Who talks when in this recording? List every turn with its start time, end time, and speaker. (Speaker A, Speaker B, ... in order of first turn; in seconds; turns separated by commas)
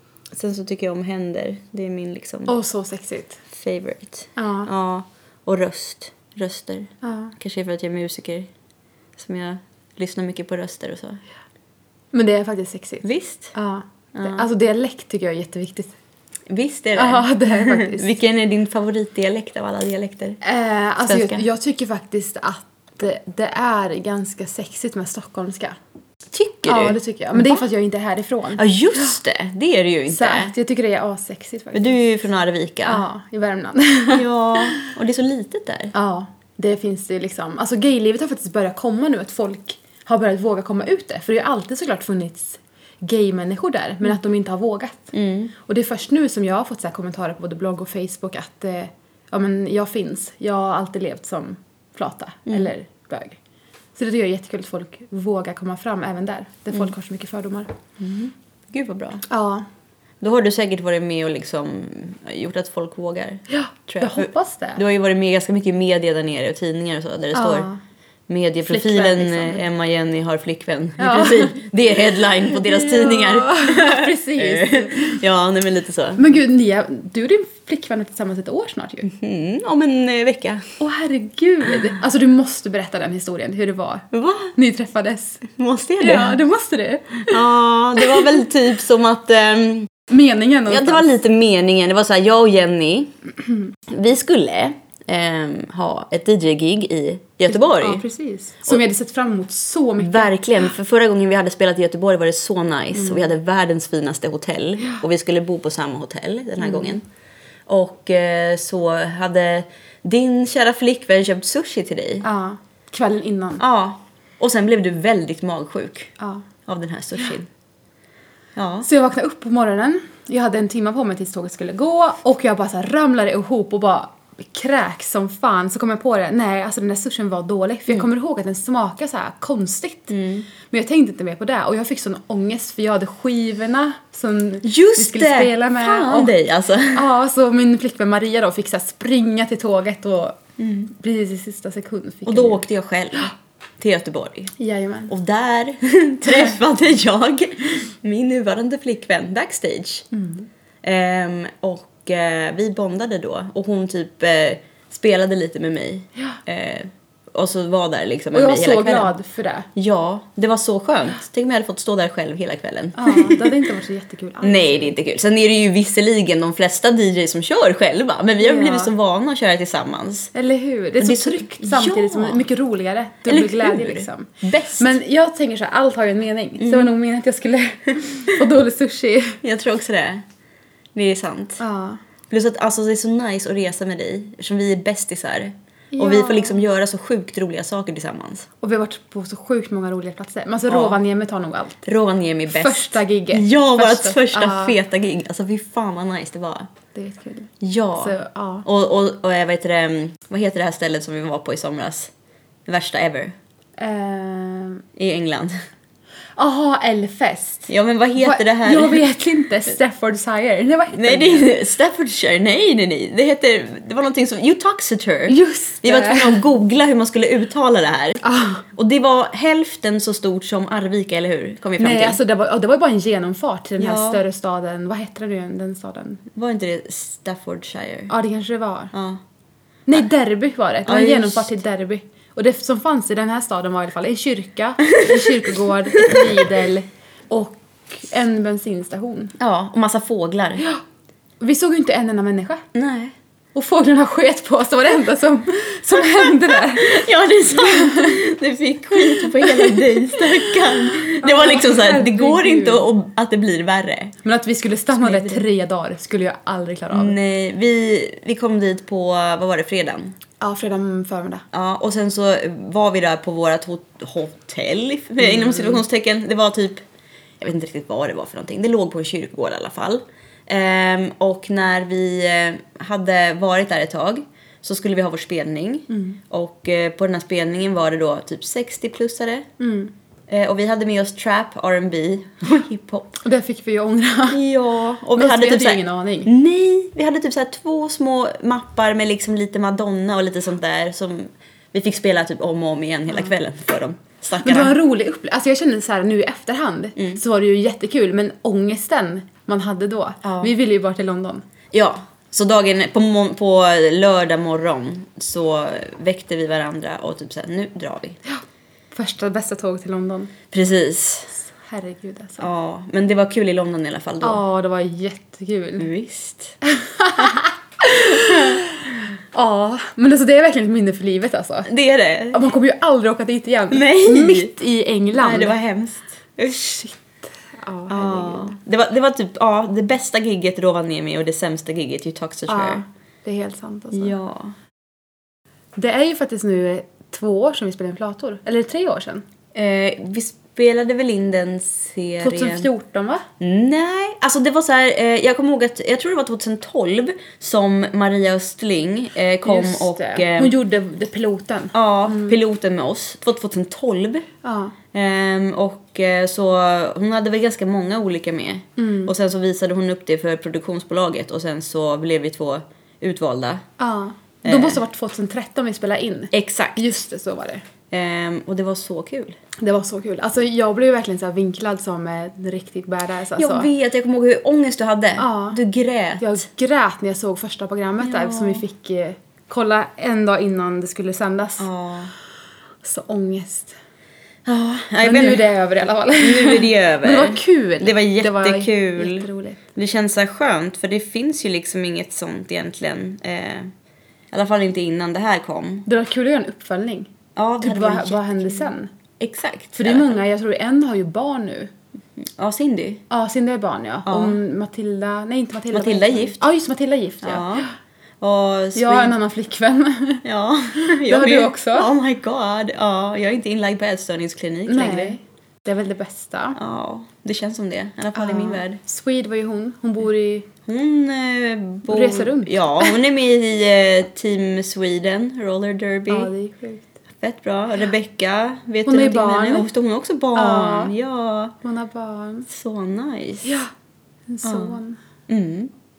Speaker A: 0.3-2.5, Speaker B: 2.5-3.4, Speaker A: 3.5-8.5, Speaker B: 4.4-4.7, Speaker B: 7.0-7.3, Speaker A: 9.2-11.2, Speaker B: 12.1-15.9, Speaker A: 13.0-13.5, Speaker A: 14.1-14.4, Speaker A: 16.5-20.4, Speaker B: 16.9-18.1, Speaker B: 20.4-25.8, Speaker A: 21.1-21.4, Speaker A: 26.3-27.6, Speaker B: 26.7-29.1, Speaker A: 28.6-30.5, Speaker B: 30.1-32.0, Speaker A: 31.7-33.0, Speaker B: 32.9-34.9, Speaker A: 34.1-35.9, Speaker B: 35.9-53.4, Speaker A: 45.1-45.5, Speaker B: 54.0-57.8, Speaker A: 58.0-59.2, Speaker B: 59.3-59.7, Speaker A: 60.2-67.7, Speaker B: 63.5-64.8, Speaker B: 67.3-67.8, Speaker A: 68.3-76.2, Speaker B: 68.7-69.6, Speaker B: 71.0-71.6, Speaker B: 72.5-75.2, Speaker B: 76.2-79.1, Speaker A: 79.0-80.6, Speaker B: 80.8-85.4, Speaker A: 84.1-84.5, Speaker A: 85.4-86.4, Speaker B: 86.0-87.4, Speaker A: 87.3-89.9, Speaker B: 88.0-88.3, Speaker B: 90.1-91.1, Speaker A: 90.7-93.2, Speaker A: 93.9-98.0, Speaker B: 97.5-100.3, Speaker A: 100.0-107.0, Speaker B: 103.0-103.3, Speaker B: 106.6-107.0, Speaker A: 107.7-112.3, Speaker B: 112.2-113.6, Speaker A: 113.6-116.1, Speaker B: 116.2-116.5, Speaker A: 116.7-117.5, Speaker A: 118.6-118.9, Speaker B: 118.8-136.3, Speaker A: 130.1-130.5, Speaker A: 134.6-137.0, Speaker B: 136.9-140.4, Speaker A: 140.6-140.9, Speaker B: 140.9-142.6, Speaker A: 142.3-144.5, Speaker B: 144.6-145.1, Speaker A: 145.1-150.1, Speaker B: 150.1-150.5, Speaker A: 150.8-159.1, Speaker B: 158.3-159.7, Speaker A: 159.8-163.6, Speaker B: 162.9-164.9, Speaker A: 164.4-170.3, Speaker B: 168.4-168.9, Speaker B: 170.3-179.4, Speaker A: 171.0-172.4, Speaker A: 173.3-174.9, Speaker A: 176.6-176.9, Speaker A: 179.4-180.2, Speaker A: 180.9-181.6, Speaker B: 181.6-182.0, Speaker A: 182.3-188.5, Speaker B: 185.9-186.6, Speaker B: 188.6-191.8, Speaker A: 190.7-191.0, Speaker A: 191.8-196.7, Speaker B: 192.5-194.8, Speaker B: 196.9-198.7, Speaker A: 197.6-202.1, Speaker A: 202.7-203.3, Speaker B: 203.8-204.8, Speaker A: 205.0-205.6, Speaker B: 206.4-211.5, Speaker A: 207.7-209.0, Speaker A: 210.9-218.2, Speaker B: 215.3-216.4, Speaker B: 218.2-218.7, Speaker A: 218.7-222.2, Speaker B: 221.8-226.2, Speaker A: 223.8-224.2, Speaker A: 226.3-228.1, Speaker B: 228.1-228.9, Speaker A: 228.9-229.2, Speaker B: 229.9-239.3, Speaker A: 230.8-231.6, Speaker A: 236.0-236.4, Speaker A: 239.4-240.7, Speaker B: 241.4-242.6, Speaker A: 242.7-243.1, Speaker B: 243.6-248.2, Speaker A: 246.0-254.2, Speaker B: 249.0-252.9, Speaker B: 254.2-257.2, Speaker A: 255.0-255.4, Speaker A: 256.9-260.1, Speaker B: 260.4-261.4, Speaker A: 261.5-266.8, Speaker B: 265.2-265.8, Speaker A: 267.4-279.5, Speaker B: 275.9-276.2, Speaker B: 279.6-279.9, Speaker A: 280.3-283.2, Speaker B: 283.2-284.4, Speaker A: 284.3-294.8, Speaker B: 285.2-286.3, Speaker B: 294.4-301.4, Speaker A: 300.2-300.5, Speaker A: 301.7-308.2, Speaker B: 308.3-310.3, Speaker A: 310.5-311.4, Speaker B: 311.5-312.5, Speaker A: 312.4-314.4, Speaker B: 314.2-315.9, Speaker A: 315.8-316.6, Speaker B: 316.6-321.7, Speaker A: 318.0-318.7, Speaker A: 321.6-322.5, Speaker B: 322.3-325.6, Speaker A: 323.7-324.5, Speaker A: 325.2-326.8, Speaker B: 326.5-328.6, Speaker A: 327.9-332.9, Speaker B: 332.5-334.2, Speaker A: 333.9-334.6, Speaker B: 335.8-339.2, Speaker A: 339.5-342.7, Speaker B: 342.2-343.2, Speaker A: 343.4-350.6, Speaker B: 349.4-352.4, Speaker A: 351.7-354.3, Speaker B: 354.4-354.8, Speaker A: 354.9-363.6, Speaker B: 358.8-359.1, Speaker B: 363.8-367.6, Speaker A: 364.4-364.8, Speaker A: 366.3-366.9, Speaker A: 367.9-369.4, Speaker B: 369.6-373.7, Speaker A: 373.4-376.4, Speaker B: 375.2-375.6, Speaker B: 376.2-381.7, Speaker A: 378.0-378.6, Speaker A: 381.6-382.1, Speaker B: 382.8-383.8, Speaker A: 384.5-385.5, Speaker B: 385.0-389.6, Speaker A: 386.2-393.7, Speaker A: 394.3-395.9, Speaker B: 395.9-398.9, Speaker A: 397.4-400.2, Speaker B: 399.8-401.7, Speaker A: 402.2-403.0, Speaker B: 403.1-407.7, Speaker A: 404.1-404.4, Speaker A: 405.7-406.4, Speaker A: 407.2-407.7, Speaker A: 408.2-409.2, Speaker B: 408.8-410.2, Speaker A: 410.2-415.2, Speaker B: 410.8-411.9, Speaker B: 414.7-416.6, Speaker A: 416.6-418.8, Speaker B: 418.1-420.5, Speaker A: 420.7-426.3, Speaker B: 421.9-423.0, Speaker B: 426.1-426.9, Speaker A: 427.2-431.6, Speaker B: 428.9-429.7, Speaker B: 430.4-430.9, Speaker B: 431.6-432.5, Speaker A: 432.5-433.6, Speaker B: 433.4-433.7, Speaker B: 434.3-435.0, Speaker A: 434.4-435.7